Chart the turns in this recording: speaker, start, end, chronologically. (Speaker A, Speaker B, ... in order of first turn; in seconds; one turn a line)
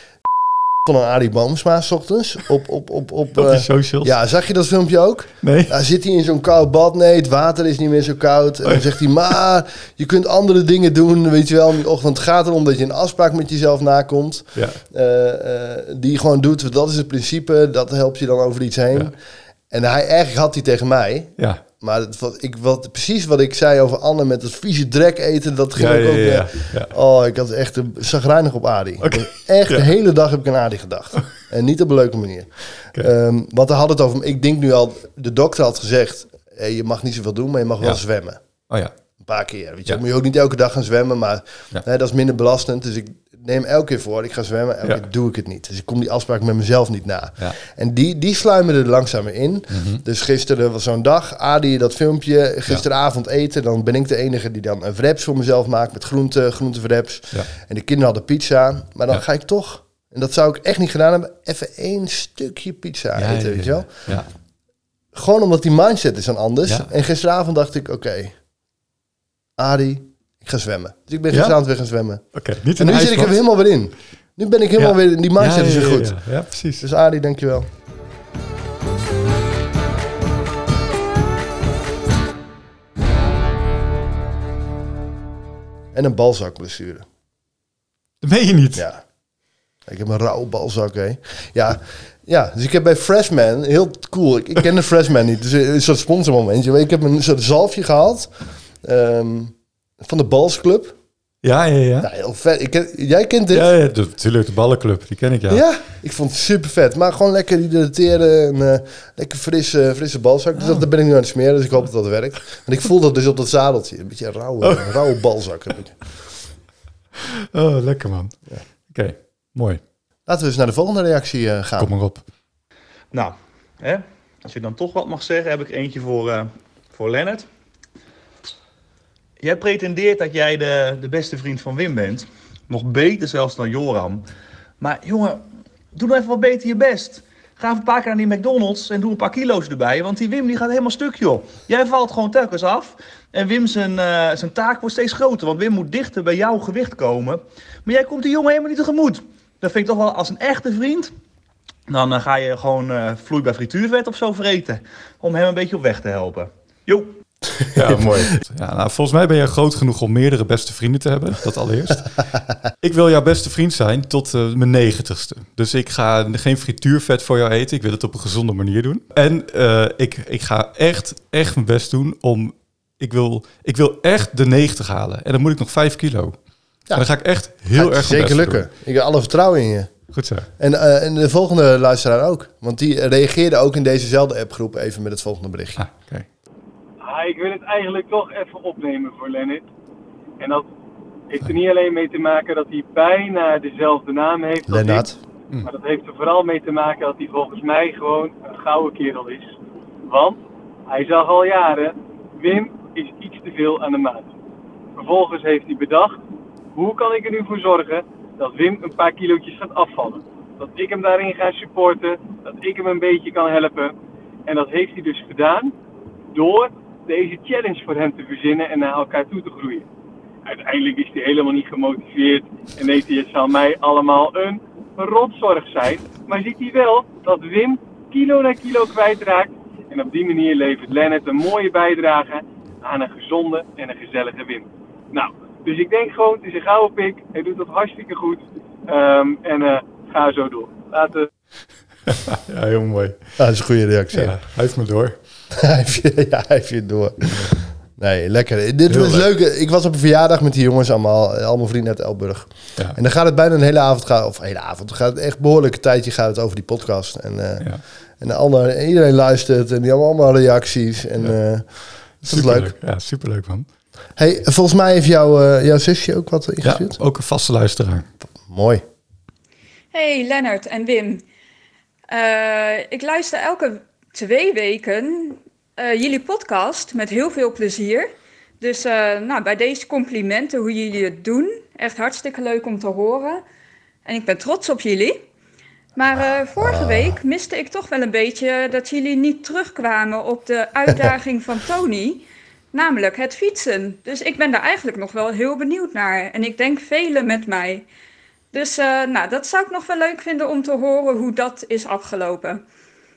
Speaker A: 0.8-19.1
Speaker B: 3.3-4.1
Speaker B: 5.4-5.7
Speaker B: 14.5-14.8
Speaker A: 19.7-38.4
Speaker B: 25.7-26.9
Speaker B: 29.0-29.9
Speaker B: 38.7-38.9
Speaker A: 39.2-64.2
Speaker B: 49.7-50.0
Speaker B: 63.1-64.3
Speaker A: 65.1-68.4
Speaker A: 69.6-77.7
Speaker B: 72.3-73.3
Speaker B: 74.8-76.9
Speaker A: 85.9-87.1
Speaker B: 88.2-88.8
Speaker A: 88.8-89.0
Speaker A: 89.8-101.0
Speaker B: 101.4-102.1
Speaker A: 102.0-103.7
Speaker B: 103.5-105.6
Speaker A: 105.5-116.3
Speaker B: 110.6-110.8
Speaker B: 114.6-115.0
Speaker B: 117.5-118.3
Speaker B: 118.9-119.8
Speaker A: 120.2-121.9
Speaker B: 121.8-122.2
Speaker C: 123.1-127.5
Speaker C: 129.4-134.2
Speaker C: 134.8-151.1
Speaker C: 151.9-157.1
Speaker B: 157.7-162.1
Speaker B: 162.8-176.4
Speaker A: 176.9-180.0
Speaker B: 176.9-178.7
Speaker B: 180.1-180.5
Speaker A: 180.6-185.8
Speaker B: 185.8-186.3
Speaker D: 187.0-189.6
Speaker D: 190.4-190.7
Speaker D: 191.3-195.1
Speaker A: 194.7-195.2
Speaker D: 195.6-199.5
Speaker D: 200.1-204.3
Speaker D: 204.9-206.2
Speaker D: 206.7-213.9
Speaker D: 214.5-215.7
Speaker D: 216.3-219.8
Speaker D: 220.4-241.3
Speaker B: 242.1-243.2
Speaker A: 243.4-244.4
Speaker B: 244.1-245.2
Speaker A: 245.6-262.7
Speaker B: 248.9-249.3
Speaker B: 262.2-263.7
Speaker A: 264.2-267.0
Speaker B: 266.6-268.1
Speaker A: 268.4-268.8
Speaker E: 269.9-271.2
Speaker E: 272.1-283.4
Speaker E: 284.1-285.2
Speaker E: 285.9-297.9
Speaker A: 286.6-287.2
Speaker E: 298.5-302.6